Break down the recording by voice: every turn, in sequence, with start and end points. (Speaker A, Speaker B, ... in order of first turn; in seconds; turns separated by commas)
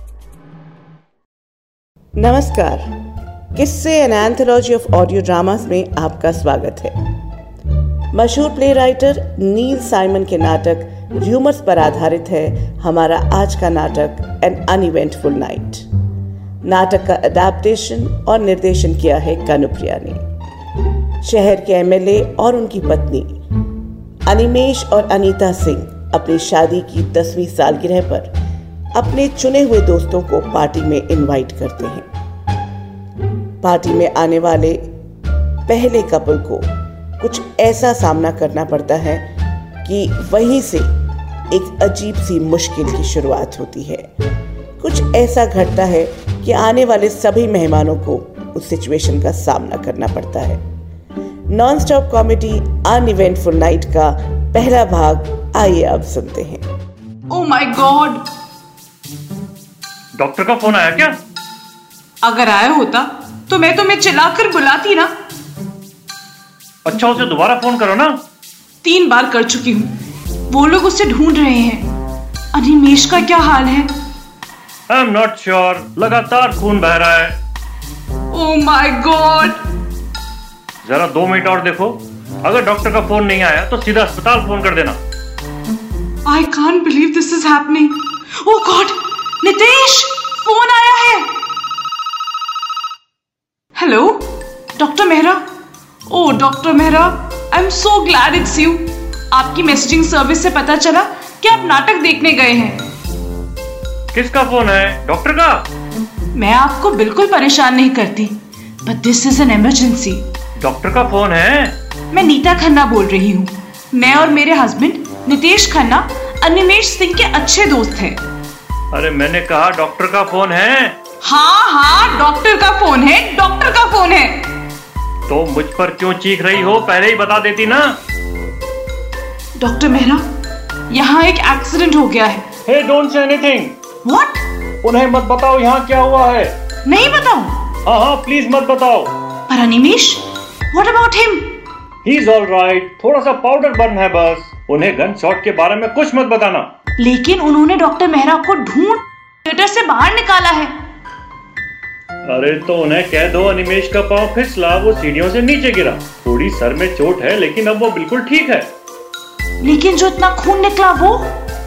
Speaker A: 2.2-2.9, Speaker A: 3.5-7.0, Speaker A: 8.1-15.9, Speaker A: 16.6-20.2, Speaker A: 21.2-23.4, Speaker A: 24.3-28.4, Speaker A: 28.9-32.1, Speaker A: 33.6-34.9, Speaker A: 35.7-39.3, Speaker A: 39.9-40.9, Speaker A: 41.5-44.1, Speaker A: 44.8-50.6, Speaker A: 51.5-56.6, Speaker B: 57.3-58.2, Speaker C: 60.2-61.2, Speaker B: 62.2-65.1, Speaker C: 66.8-68.2, Speaker B: 68.8-69.9, Speaker B: 70.5-72.0, Speaker B: 72.5-74.0, Speaker C: 74.9-77.4, Speaker B: 78.3-79.6, Speaker C: 80.8-85.0, Speaker B: 86.3-91.4, Speaker B: 93.8-95.5, Speaker B: 96.1-102.9, Speaker C: 104.1-105.7, Speaker B: 106.3-110.3, Speaker C: 110.6-111.8, Speaker B: 112.1-118.2, Speaker C: 118.9-121.0, Speaker B: 121.2-124.7, Speaker C: 125.3-128.0, Speaker B: 129.6-130.2, Speaker B: 130.9-132.5, Speaker C: 132.7-133.8, Speaker B: 134.0-134.4, Speaker C: 134.8-136.6, Speaker B: 136.9-137.7, Speaker C: 137.8-139.1, Speaker B: 139.5-141.6, Speaker C: 142.1-146.7, Speaker B: 147.0-150.7, Speaker C: 152.3-158.7, Speaker B: 159.6-161.4